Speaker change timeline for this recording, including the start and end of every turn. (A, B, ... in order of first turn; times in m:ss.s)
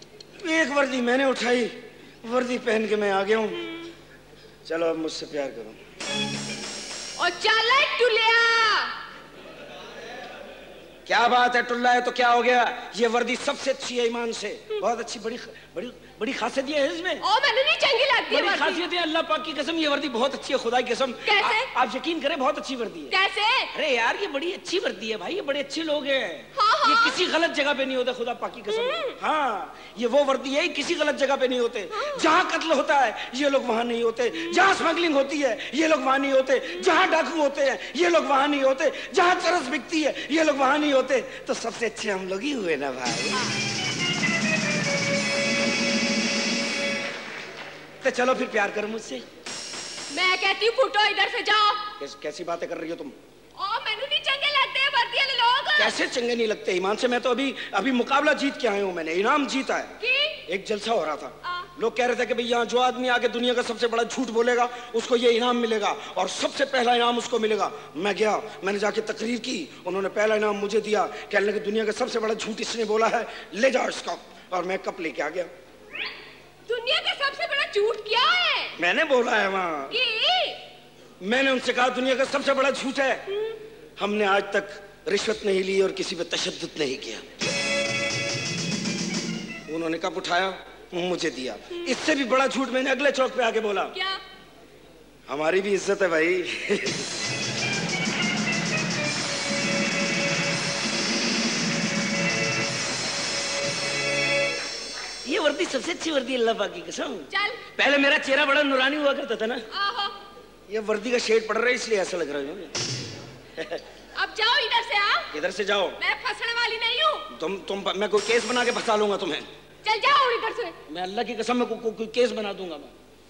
0:00.4-0:03.8 A
0:04.7-0:05.8 A
0:07.2-0:08.9 B
0:11.1-0:17.2 A
0:17.4-0:18.7 B
0:18.3-0:23.1 A
0:21.3-0:21.6 B
0:23.3-0:23.6 B
0:23.7-0:43.5 A
0:48.0-0:49.2 A
0:50.1-0:51.8 B
0:52.0-0:53.2 A
0:53.6-0:55.7 B
0:55.8-0:59.9 A
1:00.5-1:15.5 A
1:16.9-1:18.7 B
1:18.8-1:20.0 A
1:20.1-1:20.6 B
1:21.2-1:23.2 A
1:24.0-1:27.3 A
1:29.7-1:34.0 A
1:35.3-1:37.1 A
1:45.2-1:49.6 A
1:49.8-1:50.1 B
1:50.7-1:52.7 A
1:53.6-1:53.8 A
1:54.2-1:55.2 B
1:55.3-1:56.0 A
1:56.1-1:57.2 B
1:57.3-1:59.5 A
1:59.9-2:00.5 B
2:00.9-2:02.9 A